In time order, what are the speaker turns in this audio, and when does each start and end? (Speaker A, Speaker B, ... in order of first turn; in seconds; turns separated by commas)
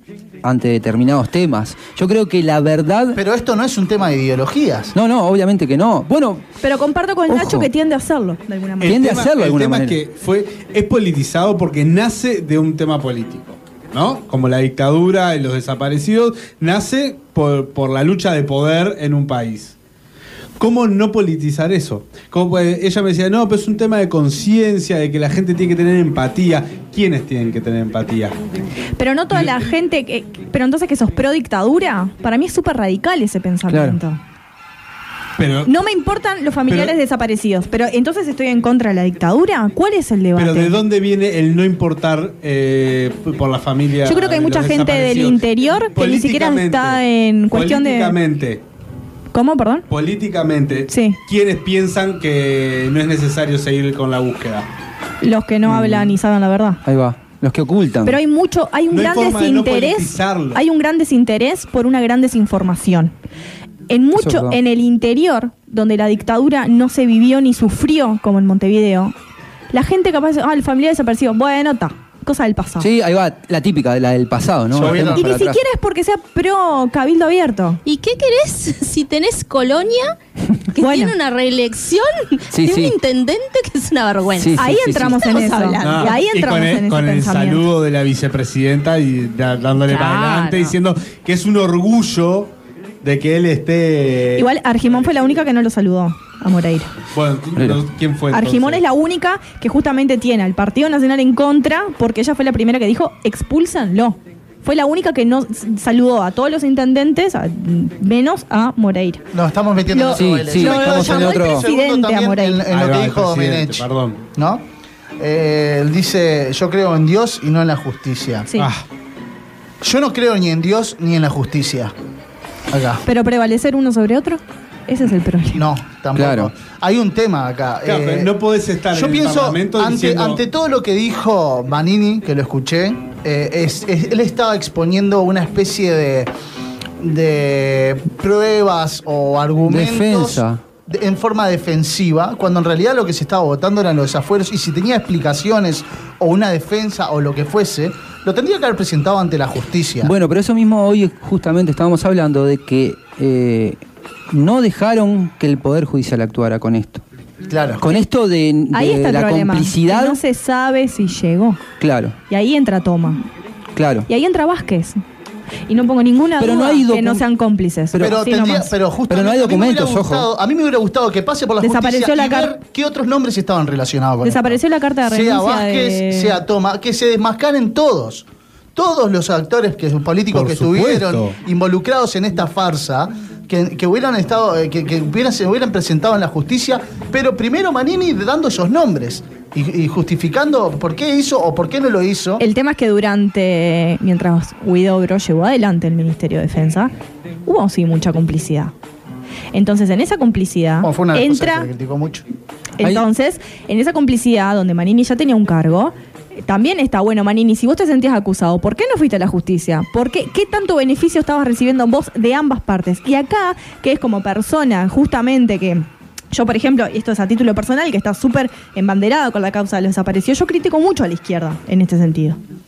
Speaker A: 0.4-3.2, Speaker B: 3.1-4.9, Speaker A: 4.9-6.5, Speaker C: 6.6-9.0, Speaker A: 7.3-7.7, Speaker D: 8.8-19.8, Speaker A: 8.8-10.0, Speaker D: 20.6-28.4, Speaker C: 29.0-34.2, Speaker A: 33.7-34.0, Speaker D: 35.4-35.7, Speaker C: 35.6-40.8, Speaker D: 36.7-37.0, Speaker D: 40.4-48.6, Speaker C: 44.0-48.2, Speaker C: 49.3-49.9, Speaker D: 49.9-54.7, Speaker C: 50.9-51.2, Speaker C: 55.2-56.8, Speaker A: 55.6-56.1, Speaker A: 56.9-58.2, Speaker C: 58.0-63.1, Speaker D: 58.9-60.6, Speaker C: 63.9-69.1, Speaker A: 64.2-64.6, Speaker C: 69.7-72.9, Speaker A: 72.8-75.6, Speaker B: 74.7-75.2, Speaker C: 74.9-77.8, Speaker E: 77.8-80.2, Speaker E: 80.7-86.2, Speaker C: 80.8-81.1, Speaker A: 82.5-83.0, Speaker A: 84.3-85.2, Speaker C: 84.6-87.7, Speaker D: 85.8-92.5, Speaker E: 89.8-90.8, Speaker D: 93.0-95.2, Speaker C: 94.3-96.9, Speaker D: 97.1-98.8, Speaker A: 97.6-97.8, Speaker C: 98.3-109.2, Speaker B: 109.3-114.6, Speaker C: 109.9-112.6, Speaker A: 110.1-111.7, Speaker D: 112.7-114.2, Speaker B: 115.2-118.5, Speaker D: 118.6-118.8, Speaker B: 119.8-121.9, Speaker B: 122.7-123.0, Speaker C: 123.0-125.6, Speaker B: 125.5-128.4, Speaker A: 126.1-126.5, Speaker D: 127.8-130.4, Speaker B: 128.9-136.3, Speaker B: 137.0-150.1, Speaker A: 139.7-140.6, Speaker A: 150.0-157.0, Speaker B: 157.5-157.8, Speaker A: 157.8-160.2, Speaker C: 158.7-161.6, Speaker A: 161.8-162.2, Speaker C: 162.3-163.2, Speaker A: 163.7-164.1, Speaker C: 164.1-165.0, Speaker C: 165.7-168.7, Speaker A: 166.4-167.2, Speaker A: 167.9-168.2, Speaker B: 168.0-192.4, Speaker A: 169.1-170.3, Speaker C: 171.6-172.6, Speaker C: 174.2-176.4, Speaker D: 180.3-181.3, Speaker C: 192.4-196.9, Speaker C: 197.4-198.7, Speaker C: 199.5-201.7, Speaker B: 200.8-202.2, Speaker C: 202.8-222.4